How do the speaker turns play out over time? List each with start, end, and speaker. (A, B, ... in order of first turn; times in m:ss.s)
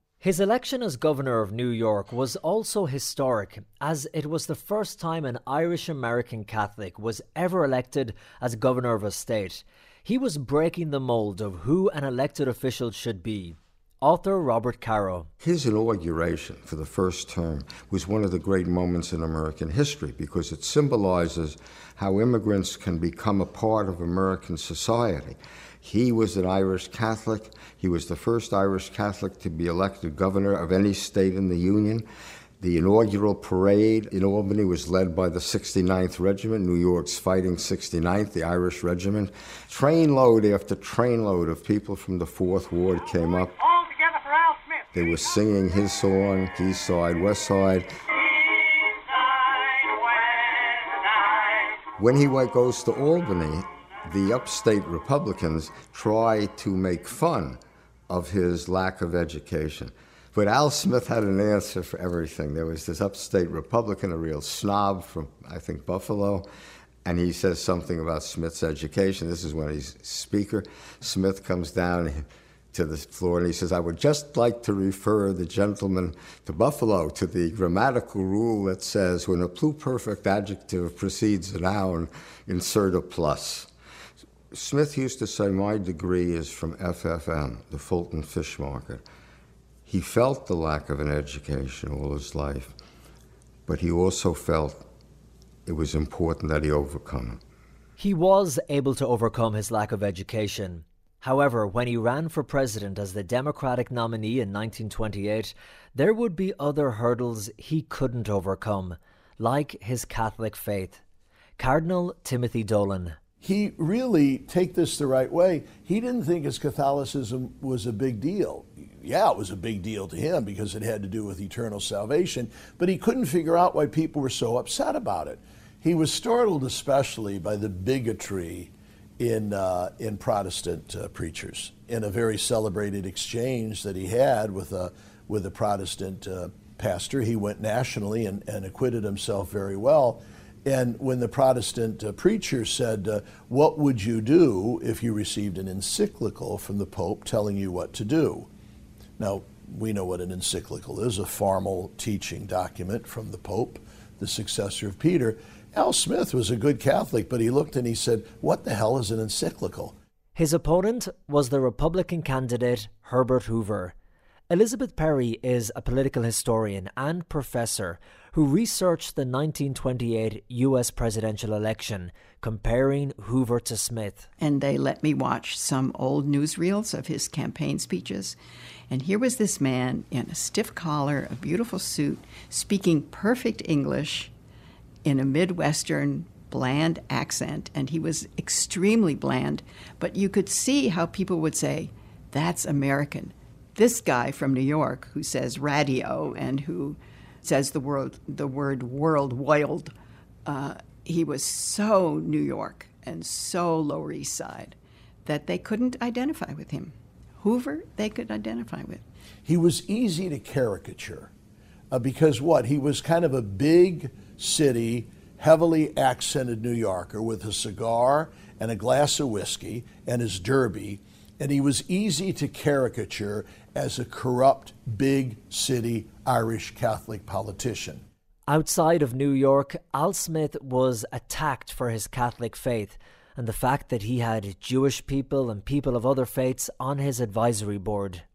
0:00.2-0:15.3 A
0:15.4-0:32.1 B
0:32.6-0:43.6 B
0:43.6-0:44.9 C
0:44.9-0:47.9 B
0:48.8-0:50.7 C
0:52.0-1:06.5 B
1:07.0-1:23.7 B
1:24.5-1:29.0 B
1:29.9-1:32.8 B
1:33.7-1:34.9 B
1:35.7-1:37.4 B
1:38.0-1:51.0 A
1:51.6-1:53.2 A
1:53.4-2:28.5 D
2:29.2-2:39.9 D
2:40.4-2:43.9 A
2:44.5-2:54.2 A
2:54.4-2:58.4 E
2:58.9-3:04.3 E
3:05.0-3:19.9 E
3:20.4-3:29.0 E
3:29.4-3:31.3 D
3:31.9-3:48.0 D
3:48.5-3:58.2 A